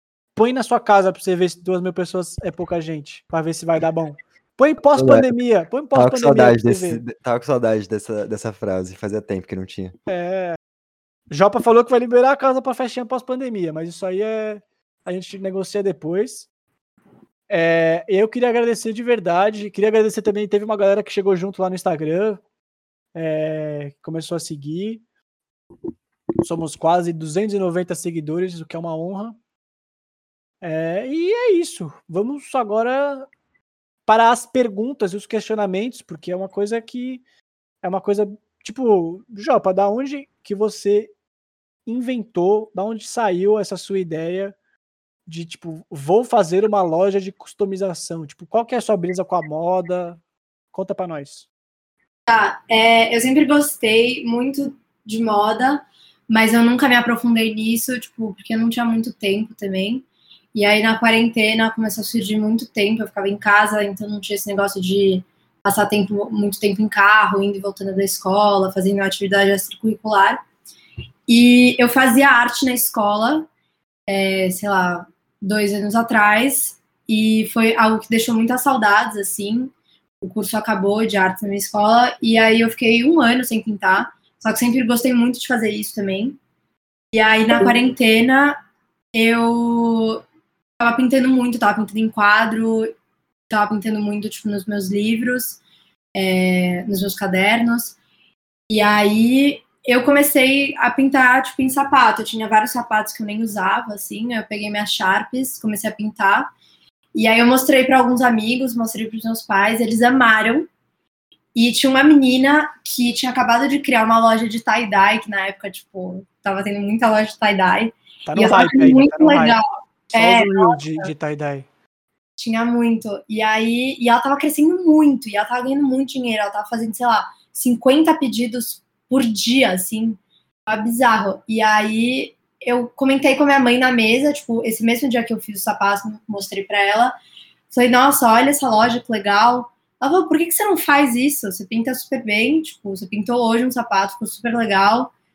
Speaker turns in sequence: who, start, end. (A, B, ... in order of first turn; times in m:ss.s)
0:00.3-0:07.0 A
0:05.0-0:05.3 B
0:05.9-0:09.9 B
0:10.1-0:10.6 A
0:11.3-0:16.5 A
0:17.5-0:22.4 A
0:23.2-0:25.0 A
0:26.4-0:29.4 A
0:30.6-0:33.3 A
0:34.1-0:37.2 A
0:37.8-0:41.1 A
0:41.9-0:44.6 A
0:45.3-0:50.2 A
0:50.7-0:51.5 A
0:52.3-1:10.4 C
1:11.3-1:13.5 C
1:14.1-1:26.4 C
1:27.1-1:28.6 C
1:29.1-1:30.2 C
1:30.8-1:32.9 C
1:33.5-1:35.6 C
1:36.1-1:38.0 C
1:38.7-1:46.5 C
1:47.1-1:50.7 C
1:51.6-1:59.6 C
1:58.2-1:59.6 A
2:00.1-2:01.7 A
2:00.1-2:01.1 C
2:02.4-2:17.1 C
2:17.7-2:25.1 C